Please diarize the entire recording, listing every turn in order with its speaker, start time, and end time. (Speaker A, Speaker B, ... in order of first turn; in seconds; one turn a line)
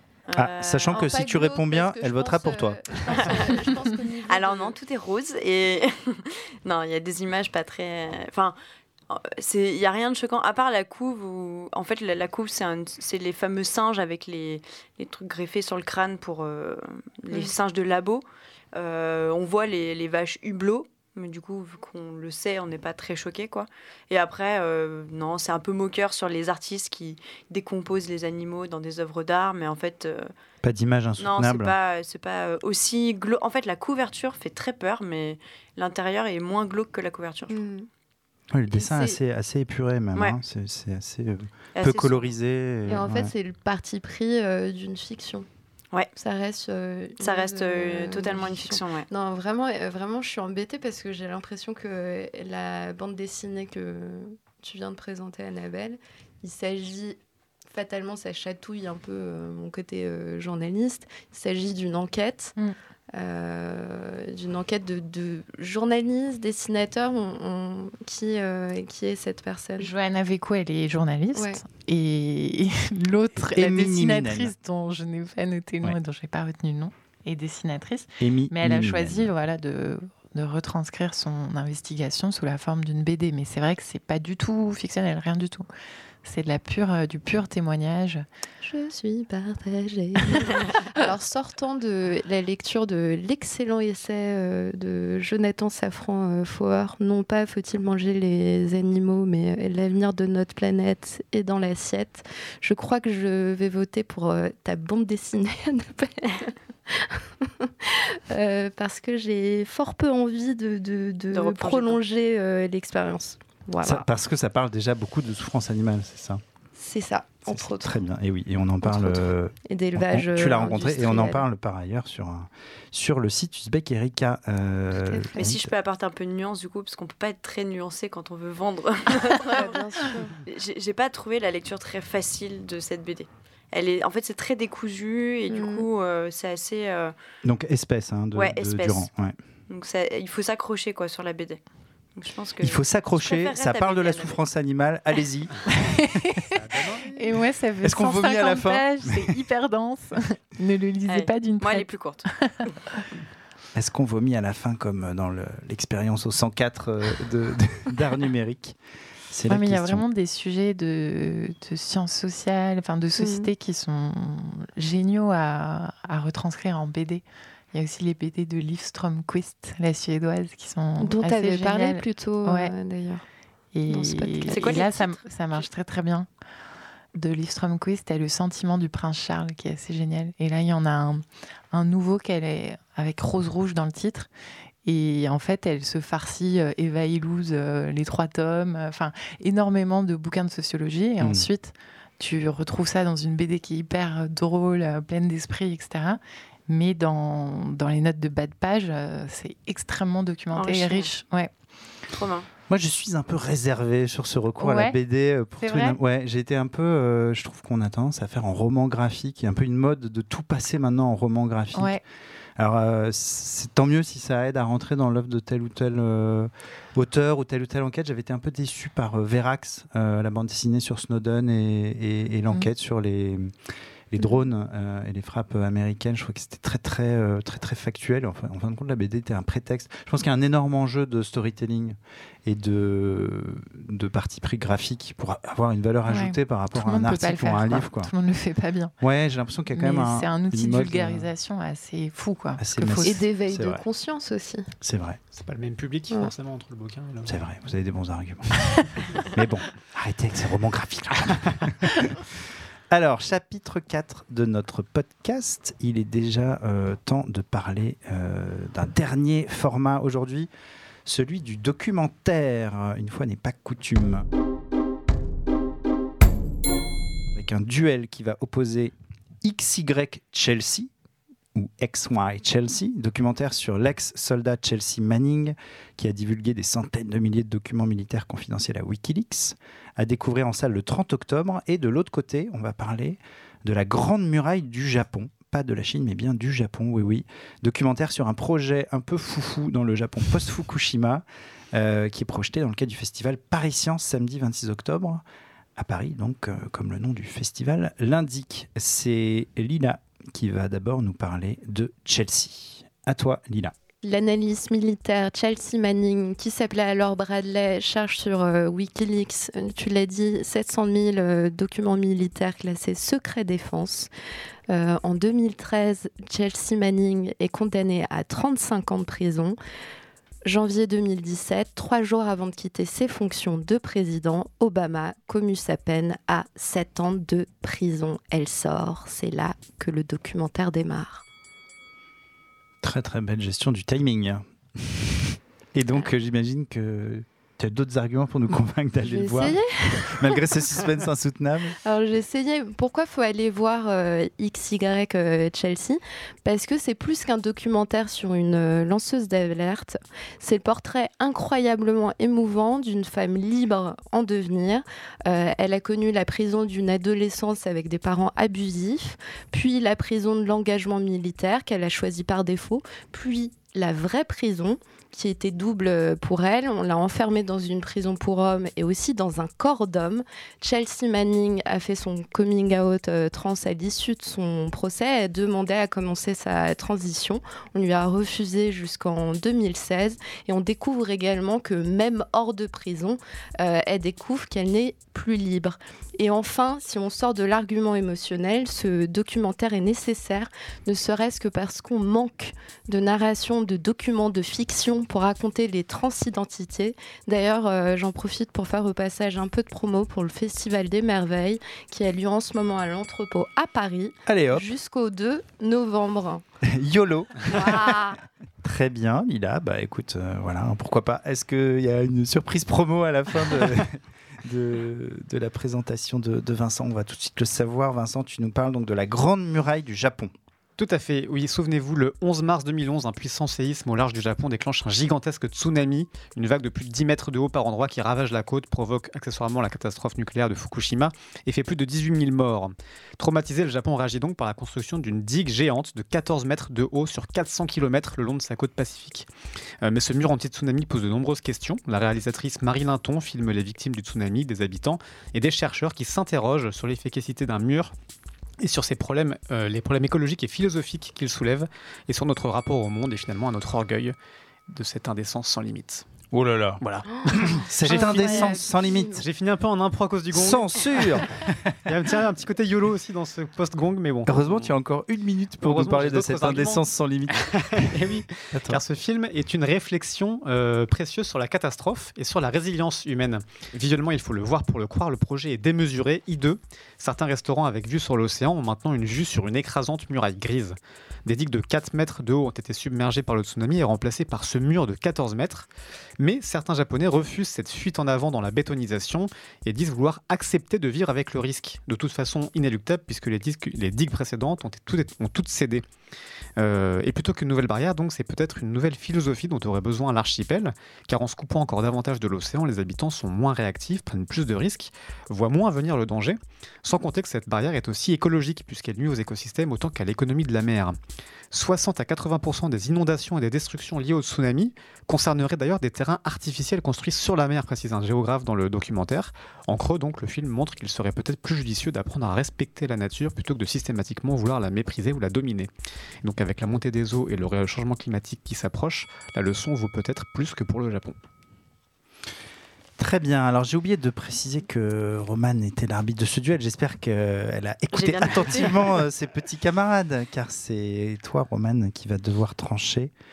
Speaker A: 0.3-1.0
Speaker B: 0.4-2.8
Speaker C: 0.9-4.7
Speaker A: 3.1-8.5
Speaker A: 9.1-30.3
Speaker B: 30.6-31.7
Speaker A: 31.2-37.6
Speaker C: 37.5-37.9
Speaker B: 38.5-43.3
Speaker C: 38.7-39.2
Speaker A: 41.8-42.2
Speaker C: 42.9-45.5
Speaker C: 46.1-62.5
Speaker A: 47.2-49.1
Speaker C: 63.1-69.9
Speaker D: 69.8-85.7
Speaker C: 71.3-71.6
Speaker B: 73.3-74.5
Speaker B: 78.2-79.3
Speaker D: 86.2-88.2
Speaker C: 88.6-114.0
Speaker A: 111.3-112.0
Speaker B: 113.8-116.4
Speaker C: 116.8-118.0
Speaker B: 117.5-125.7
Speaker C: 118.8-121.4
Speaker C: 124.9-125.6
Speaker A: 125.3-137.1
Speaker C: 129.3-130.3
Speaker C: 135.5-135.9
Speaker B: 137.4-139.3
Speaker A: 138.3-139.1
Speaker A: 139.7-141.6
Speaker A: 142.2-144.4
Speaker B: 142.6-145.6
Speaker D: 145.7-146.5
Speaker E: 146.5-147.1
Speaker D: 147.1-153.0
Speaker B: 147.8-149.3
Speaker A: 151.1-152.7
Speaker B: 153.7-158.8
Speaker B: 159.3-160.0
Speaker D: 159.5-172.7
Speaker C: 163.2-163.5
Speaker C: 171.0-173.2
Speaker D: 173.7-176.3
Speaker C: 173.9-174.9
Speaker A: 174.5-175.2
Speaker D: 177.1-184.3
Speaker D: 184.8-201.5
Speaker B: 191.2-191.5
Speaker A: 200.5-201.1
Speaker A: 202.1-202.5
Speaker B: 202.7-212.0
Speaker D: 204.6-204.9
Speaker D: 205.6-206.0
Speaker D: 211.7-212.0
Speaker B: 212.6-223.5
Speaker B: 224.1-238.1
Speaker D: 236.1-238.9
Speaker B: 239.0-241.3
Speaker D: 239.7-243.2
Speaker B: 242.6-243.8
Speaker C: 243.0-244.7
Speaker B: 244.8-245.2
Speaker E: 245.3-247.3
Speaker B: 247.2-252.3
Speaker B: 252.9-260.5
Speaker B: 261.0-264.2
Speaker B: 267.3-270.9
Speaker B: 271.5-295.2
Speaker B: 295.8-303.7
Speaker C: 304.0-314.1
Speaker C: 314.7-319.6
Speaker C: 320.4-331.2
Speaker B: 332.8-339.6
Speaker C: 339.0-340.8
Speaker B: 340.1-341.8
Speaker C: 341.8-406.4
Speaker B: 404.2-404.7
Speaker B: 406.6-420.3
Speaker C: 407.5-408.2
Speaker E: 420.8-439.3
Speaker E: 439.8-447.9
Speaker E: 448.6-454.1
Speaker E: 454.7-456.1
Speaker B: 456.3-459.2
Speaker E: 456.8-461.3
Speaker C: 457.1-459.2
Speaker B: 460.3-461.9
Speaker E: 461.9-464.8
Speaker B: 464.2-468.0
Speaker E: 465.6-485.7
Speaker B: 468.5-468.8
Speaker E: 486.2-495.8
Speaker E: 496.6-511.0
Speaker E: 511.5-525.7
Speaker E: 526.2-531.1
Speaker B: 533.0-543.1
Speaker A: 537.9-539.0